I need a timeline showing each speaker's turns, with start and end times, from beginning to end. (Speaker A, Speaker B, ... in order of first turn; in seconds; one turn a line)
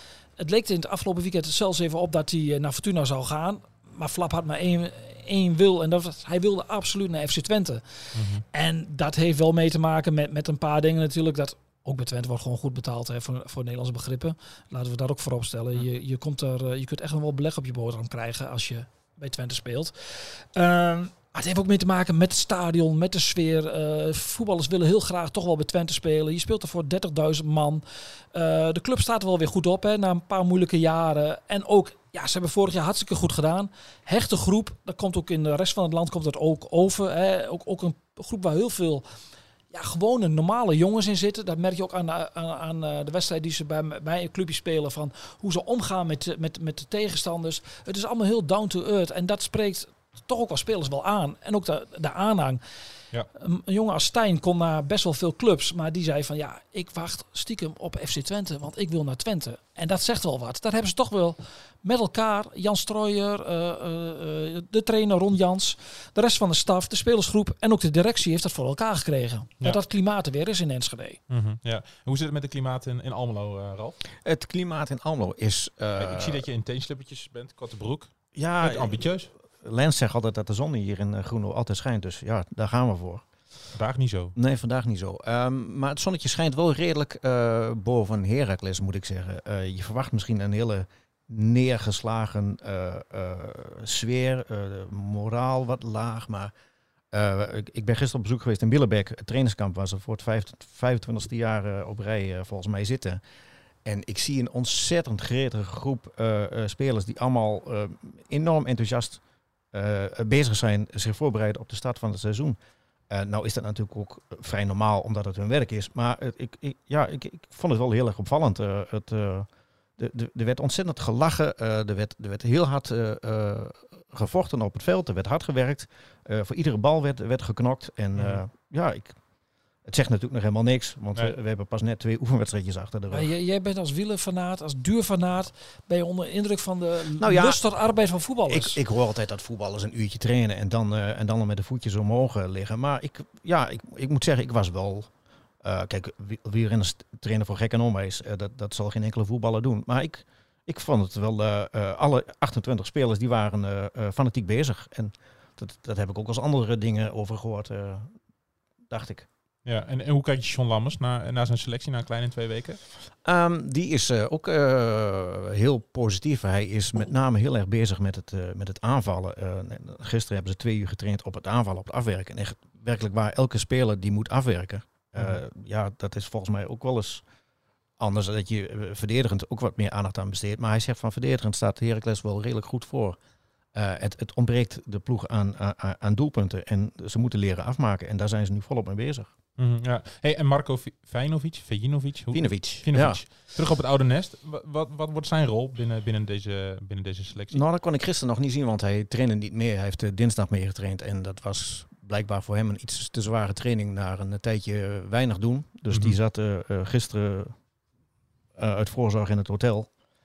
Speaker A: 0.4-39.0
Speaker B: 8.1-8.4
Speaker A: 39.7-52.6
Speaker A: 53.3-71.2
Speaker B: 71.3-74.0
Speaker C: 74.2-76.4
Speaker B: 76.0-79.3
Speaker C: 78.3-83.2
Speaker B: 83.7-84.3
Speaker C: 84.3-96.5
Speaker C: 97.1-103.2
Speaker C: 103.8-109.2
Speaker C: 109.7-112.6
Speaker C: 113.1-129.2
Speaker B: 128.1-128.4
Speaker C: 129.8-133.3
Speaker A: 133.1-138.8
Speaker C: 137.2-137.6
Speaker C: 138.5-145.1
Speaker C: 145.6-158.1
Speaker C: 158.9-159.3
Speaker B: 159.7-162.8
Speaker C: 163.2-177.2
Speaker C: 178.0-183.2
Speaker C: 183.7-189.3
Speaker B: 189.6-197.6
Speaker C: 192.3-193.2
Speaker C: 197.5-207.5
Speaker B: 205.9-206.2
Speaker C: 208.6-209.9